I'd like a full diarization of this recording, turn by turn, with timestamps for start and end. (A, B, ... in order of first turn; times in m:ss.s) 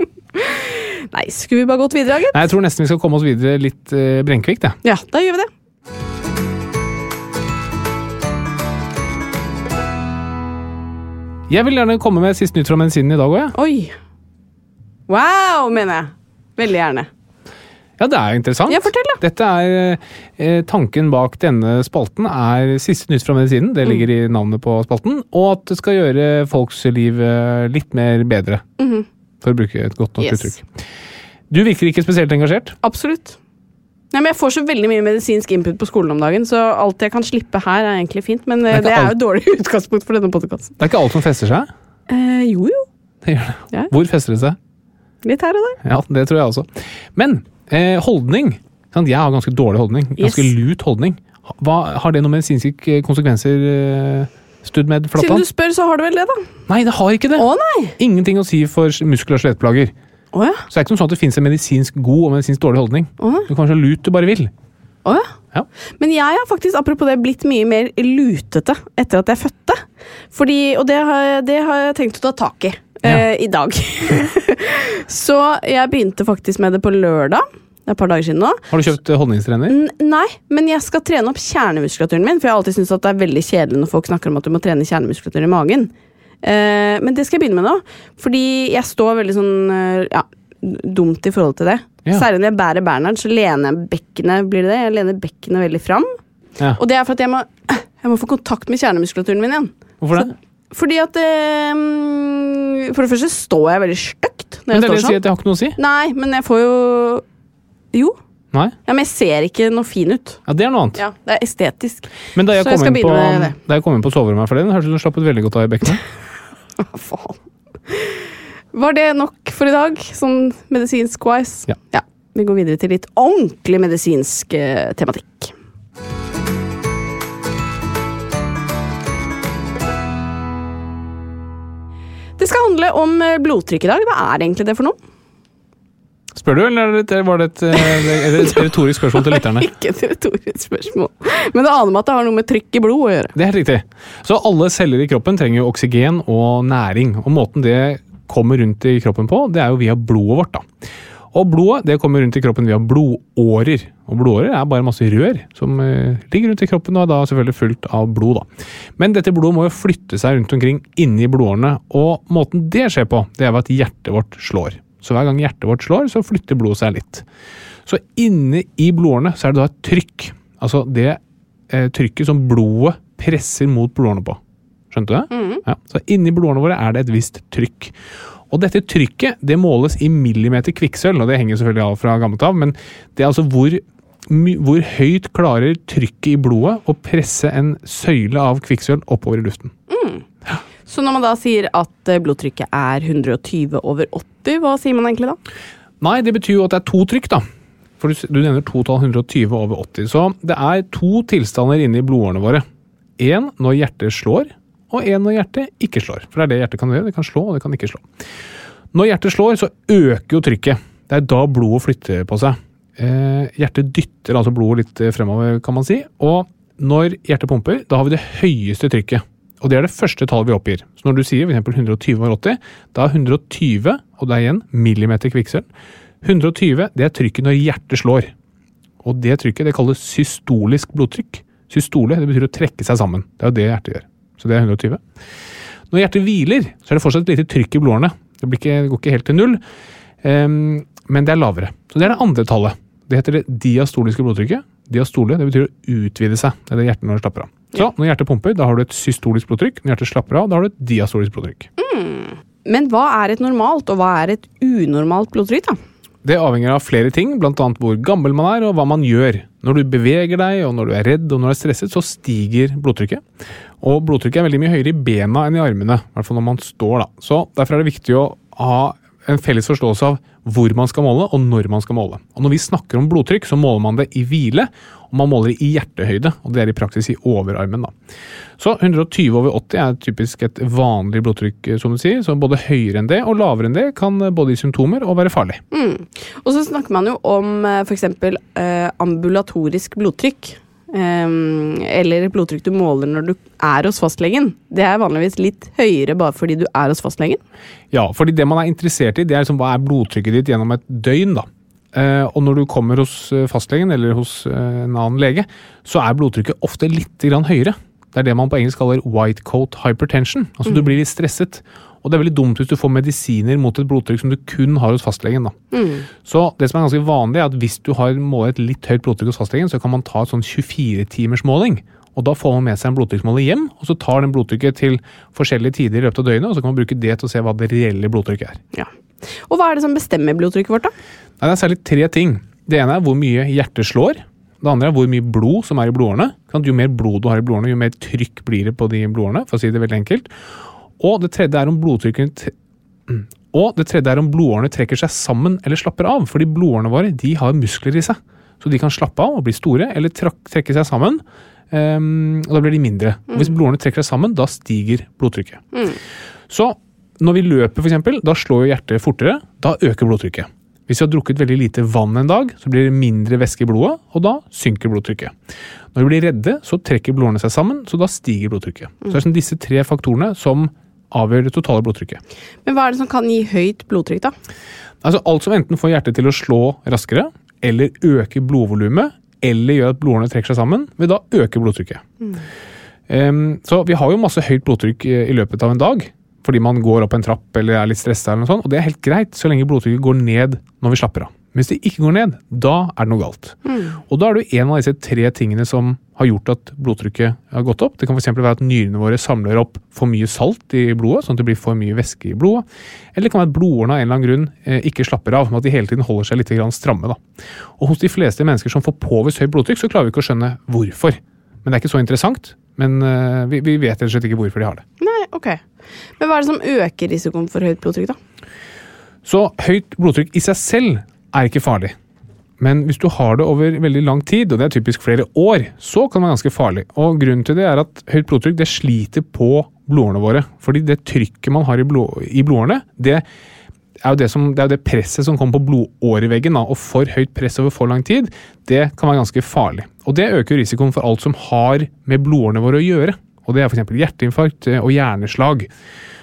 0:00.3-0:02.4 A
0:02.3-0:04.8 B
0:04.8-0:05.5 A
0:11.5-0:13.5 B
0:13.5-0:13.9 A
0:15.1-0:17.1 A
0:18.0-0:28.6 B
0:18.7-0:19.2 A
0:28.8-0:29.0 A
0:29.4-0:30.6 B
0:30.2-0:30.6 A
0:31.5-0:32.8 B
0:32.8-0:33.4 A
0:34.1-0:40.7 A
0:38.7-0:39.1 B
0:40.8-0:41.7 B
0:42.1-0:42.8 A
0:43.2-0:44.6 B
0:45.2-0:45.8 A
0:45.8-0:55.4 B
0:50.2-0:50.5 A
0:55.2-0:56.5 A
0:56.7-0:59.9 B
0:57.4-0:58.0 A
1:00.3-1:00.6 A
1:00.7-1:04.5 B
1:03.2-1:03.5 A
1:05.0-1:05.3 A
1:06.0-1:18.7 A
1:18.7-1:19.8 B
1:19.7-1:25.9 A
1:26.4-1:36.2 A
1:36.8-1:45.2 A
1:40.0-1:40.3 B
1:44.7-1:45.8 B
1:45.8-1:47.2 A
1:48.8-1:50.4 A
1:50.5-1:51.0 B
1:51.0-1:53.6 A
1:52.3-1:56.0 B
1:56.8-2:05.5 A
2:12.4-2:15.0 A
2:16.3-2:19.7 B
2:17.8-2:23.3 A
2:23.3-2:30.7 B
2:31.3-2:38.5 B
2:39.0-2:47.2 B
2:47.8-2:54.4 B
2:54.9-2:57.9 B
2:55.3-2:55.6 A
2:58.5-3:09.7 B
3:09.9-3:10.2 A
3:10.8-3:15.4 A
3:16.0-3:17.4 B
3:18.0-3:22.6 B
3:23.2-3:28.0 B
3:28.9-3:45.6 B
3:46.2-3:48.3 B
3:49.0-3:55.0 B
3:55.9-3:59.6 B
4:00.2-4:11.7 B
4:11.8-4:15.8 A
4:16.2-4:23.2 B
4:23.8-4:37.9 B
4:38.6-4:45.6 B
4:45.7-4:57.4 A
4:57.9-5:15.6 B
5:15.7-5:16.1 A
5:16.2-5:28.6 B
5:29.4-5:30.9 A
5:31.4-5:40.3 B
5:41.0-5:42.5 B
5:43.1-5:55.6 B
5:55.7-5:56.0 A
5:56.5-6:05.3 B
6:05.9-6:12.2 B
6:12.6-6:14.3 A
6:15.0-6:22.0 B
6:23.1-6:47.2 B
6:33.6-6:34.0 A
6:47.8-6:54.8 B
6:55.0-6:55.6 A
6:56.2-6:58.2 A
6:59.2-7:01.9 B
7:02.6-7:13.2 B
7:14.0-7:25.7 B